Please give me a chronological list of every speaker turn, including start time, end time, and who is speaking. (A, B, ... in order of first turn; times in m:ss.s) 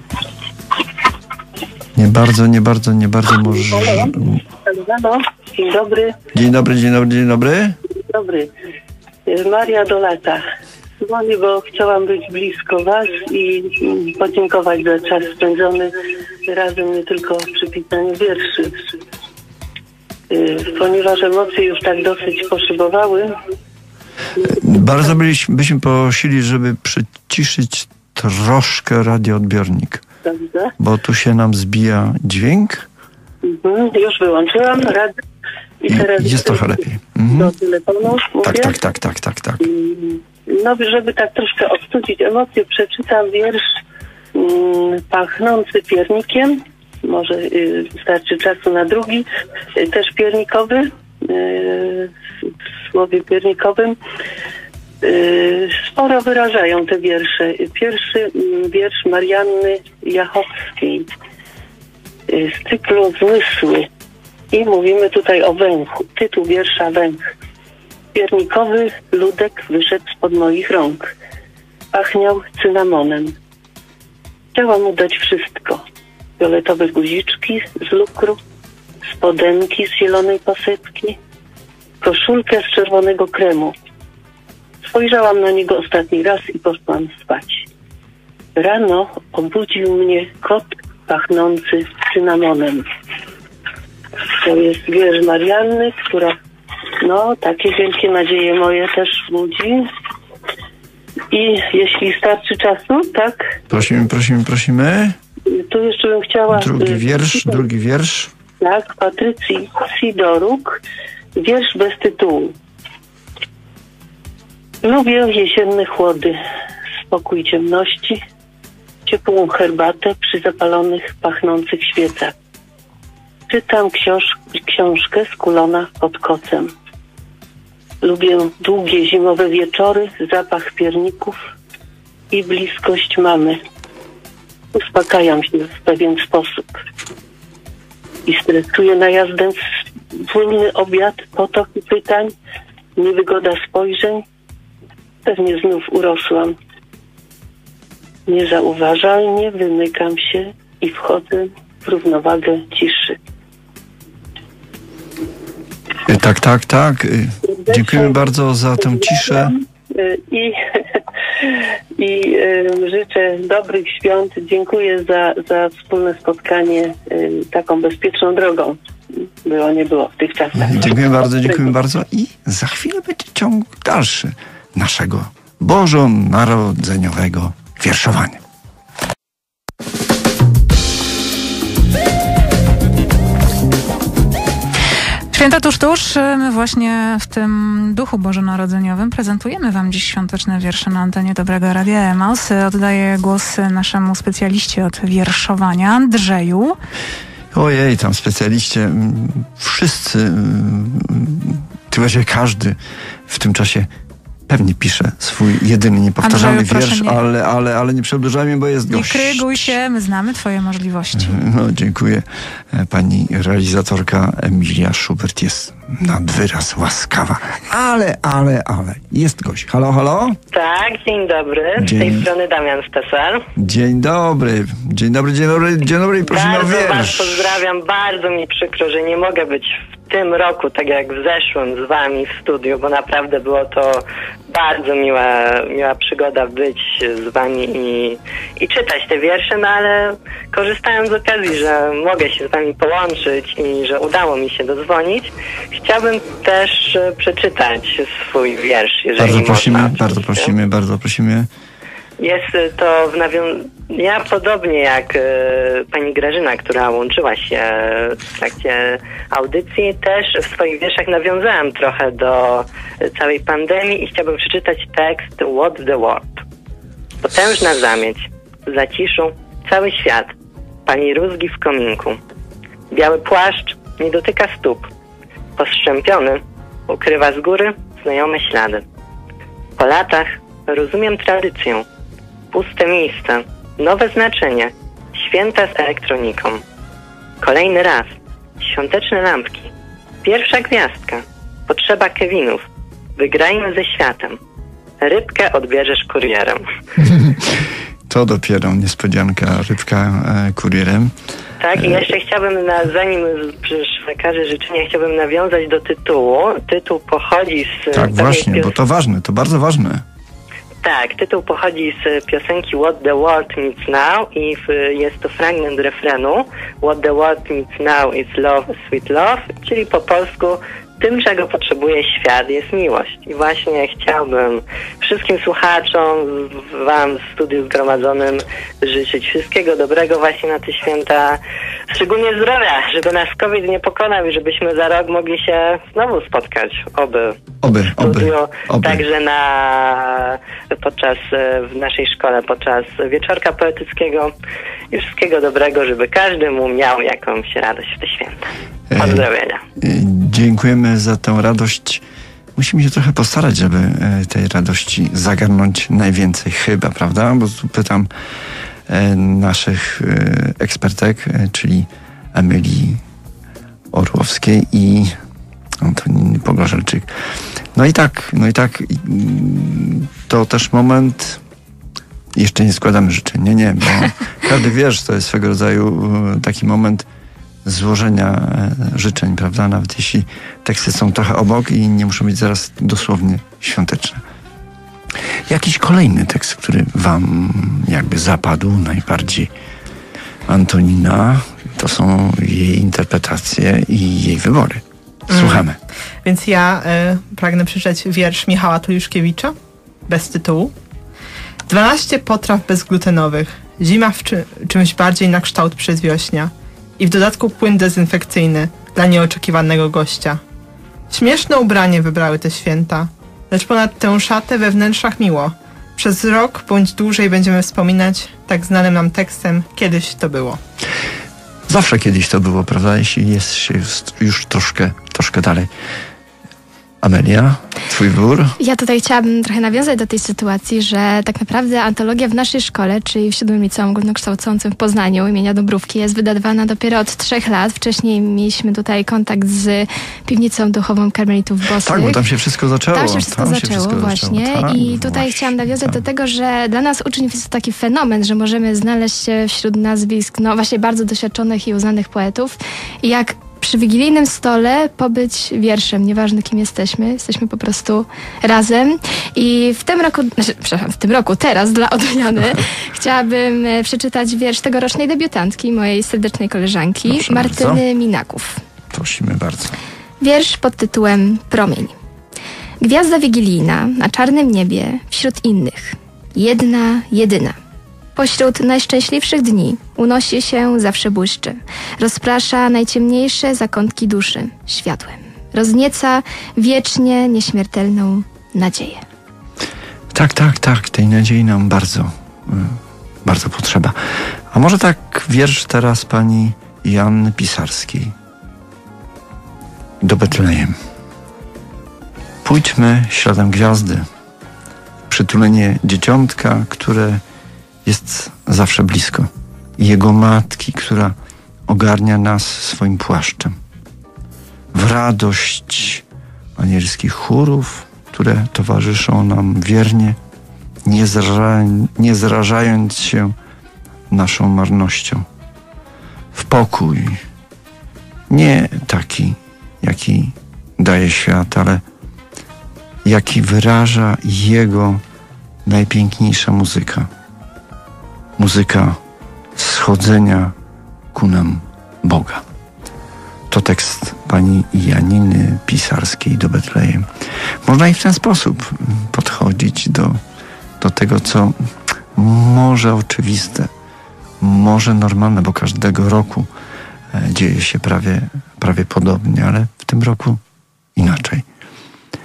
0:01.9-0:04.4 A
0:03.7-0:06.1 B
0:06.3-0:07.8 A
0:08.1-0:08.5 B
0:09.2-0:10.4 B
0:11.0-0:15.9 B
0:16.5-0:18.7 B
0:20.3-0:23.3 B
0:24.4-0:30.0 A
0:30.2-0:30.7 B
0:30.8-0:32.9 A
0:33.4-0:35.1 B
0:35.8-0:38.8 B
0:35.9-0:37.5 A
0:38.4-0:39.6 A
0:39.6-0:43.6 B
0:44.3-0:54.0 B
0:55.0-1:01.1 B
1:02.3-1:03.9 B
1:04.5-1:07.2 B
1:08.1-1:11.1 B
1:11.9-1:13.3 B
1:14.5-1:15.8 B
1:16.4-1:18.4 B
1:19.1-1:21.2 B
1:22.0-1:23.7 B
1:24.8-1:27.6 B
1:28.6-1:32.9 B
1:34.3-1:36.3 B
1:37.0-1:39.9 B
1:41.3-1:43.4 B
1:43.7-1:45.2 A
1:45.5-1:47.6 B
1:46.5-1:48.3 A
1:48.6-1:50.8 B
1:51.4-1:52.5 B
1:54.8-1:56.4 B
1:57.1-1:58.2 B
1:59.0-2:02.3 B
2:03.5-2:06.7 B
2:08.0-2:11.4 B
2:12.3-2:13.6 B
2:14.7-2:16.8 B
2:18.2-2:19.6 B
2:20.1-2:22.3 B
2:23.0-2:24.2 B
2:25.2-2:26.5 B
2:28.3-2:33.2 B
2:36.0-2:39.5 A
2:37.4-2:40.6 B
2:41.4-2:48.8 B
2:49.4-2:51.7 B
2:50.6-2:58.4 A
3:05.3-3:16.8 C
3:17.5-3:23.9 A
3:24.5-3:29.8 A
3:26.2-3:27.2 C
3:28.9-3:31.4 C
3:31.1-3:40.4 A
3:40.5-3:43.4 D
3:41.8-3:42.3 A
3:43.6-3:47.6 A
3:46.2-4:10.5 D
4:09.2-4:11.5 A
4:12.2-4:26.4 D
4:27.2-4:30.3 D
4:30.8-4:32.2 D
4:32.9-4:34.9 D
4:35.6-4:38.8 D
4:39.8-4:41.8 D
4:42.5-4:46.6 D
4:47.4-4:49.7 D
4:50.2-4:52.6 D
4:53.2-4:54.4 D
4:55.0-4:56.6 D
4:57.1-4:57.5 A
4:58.1-5:01.1 A
5:01.6-5:08.7 D
5:01.7-5:02.1 A
5:07.9-5:10.0 A
5:10.8-5:31.4 D
5:31.9-5:37.4 D
5:37.6-5:39.0 A
5:37.9-5:44.3 D
5:44.9-5:49.6 D
5:48.9-5:49.2 A
5:49.8-5:52.0 A
5:52.6-5:58.1 A
5:58.9-6:03.0 A
6:03.9-6:05.1 A
6:05.8-6:07.1 A
6:07.7-6:11.4 A
6:12.3-6:17.1 A
6:17.6-6:24.2 A
6:25.5-6:29.5 A
6:30.5-6:35.8 A
6:35.3-6:35.7 E
6:36.2-6:39.5 E
6:40.1-6:40.7 E
6:41.7-6:50.4 E
6:51.1-7:00.6 E
7:01.7-7:05.7 A
7:07.0-7:08.6 A
7:08.6-7:22.2 F
7:21.8-7:26.0 A
7:22.9-7:48.6 F
7:47.0-7:47.8 A
7:48.9-7:49.8 A
7:50.2-7:51.9 F
7:52.8-7:57.6 F
7:58.2-8:09.0 F
8:10.1-8:18.1 A
8:20.0-8:20.8 A
8:22.4-8:24.0 A
8:25.1-8:27.2 A
8:27.8-8:31.1 A
8:31.7-8:33.6 A
8:34.7-8:36.0 A
8:36.6-8:40.2 A
8:40.8-8:43.3 A
8:44.1-8:45.2 A
8:46.3-8:47.2 A
8:48.3-8:51.8 A
8:53.0-8:55.0 A
8:55.6-8:57.1 A
8:58.4-8:59.0 A
8:59.6-9:00.5 A
9:01.1-9:02.4 A
9:03.5-9:07.1 A
9:07.6-9:10.2 A
9:10.8-9:11.5 A
9:12.1-9:13.7 A
9:14.4-9:16.5 A
9:17.1-9:20.4 A
9:21.0-9:21.4 A